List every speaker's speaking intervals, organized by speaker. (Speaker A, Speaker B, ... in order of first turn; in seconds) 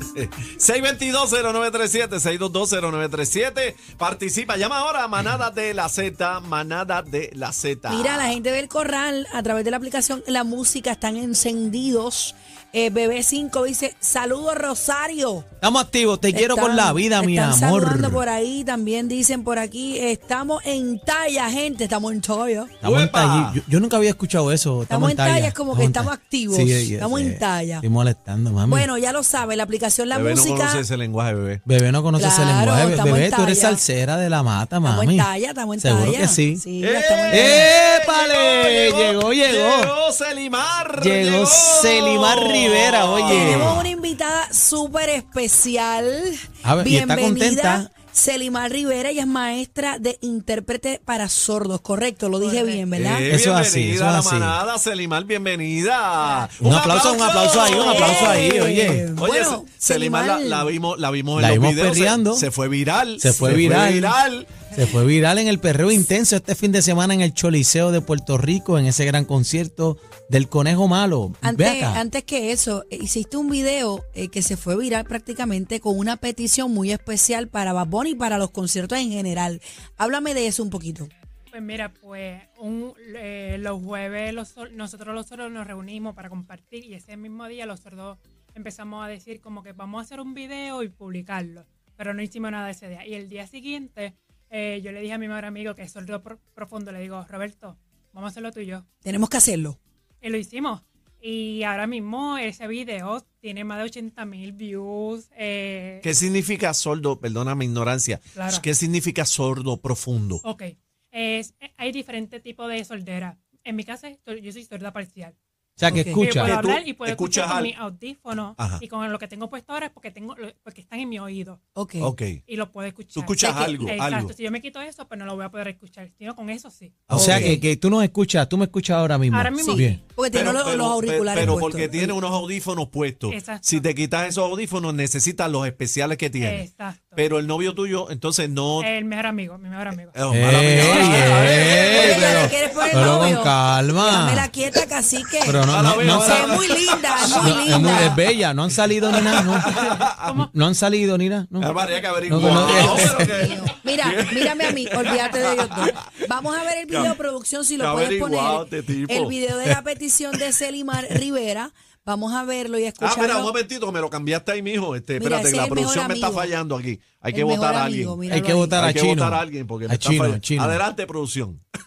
Speaker A: 0.1-8.4, 22.8-23.6, 30.1-31.6, 36.8-43.9, 53.0-58.4, 59.2-64.7, 106.0-110.4, 116.3-117.7, 122.0-122.4, 123.1-124.3, 127.1-127.6, 130.3-136.6, 137.2-138.9, 140.1-142.8, 145.6-148.2, 149.1-150.3, 151.6-155.9, 157.8-159.4, 163.0-168.2, 168.7-171.6
Speaker B: 7.9-15.4, 16.3-22.7, 24.9-27.8, 28.7-30.9, 32.2-33.8, 34.8-37.7, 43.2-53.3, 57.5-60.8, 71.4-81.1, 99.0-99.8, 115.9-116.2, 121.8-122.1, 123.4-123.8, 127.1-127.6, 129.6-132.2, 141.2-148.2, 152.7-163.6, 165.2-166.5, 167.3-168.8
Speaker C: 15.6-18.2, 22.8-28.9, 31.6-36.6, 37.3-39.9, 41.0-43.9, 46.6-47.9, 53.3-54.6, 56.6-59.1, 61.4-62.5, 63.2-64.2, 64.7-72.0, 115.8-116.6, 127.1-130.0, 131.4-131.6, 140.3-144.5, 145.4-146.6, 147.2-149.7, 150.4-153.4, 168.3-170.8
Speaker D: 52.4-53.0, 56.2-56.5, 81.5-98.8, 100.2-106.1, 108.3-108.6, 110.4-115.3, 116.1-121.6, 122.5-127.2, 129.3-129.9, 133.3-133.9, 136.4-137.2, 138.8-140.2, 140.8-141.8, 149.8-150.5, 152.4-152.8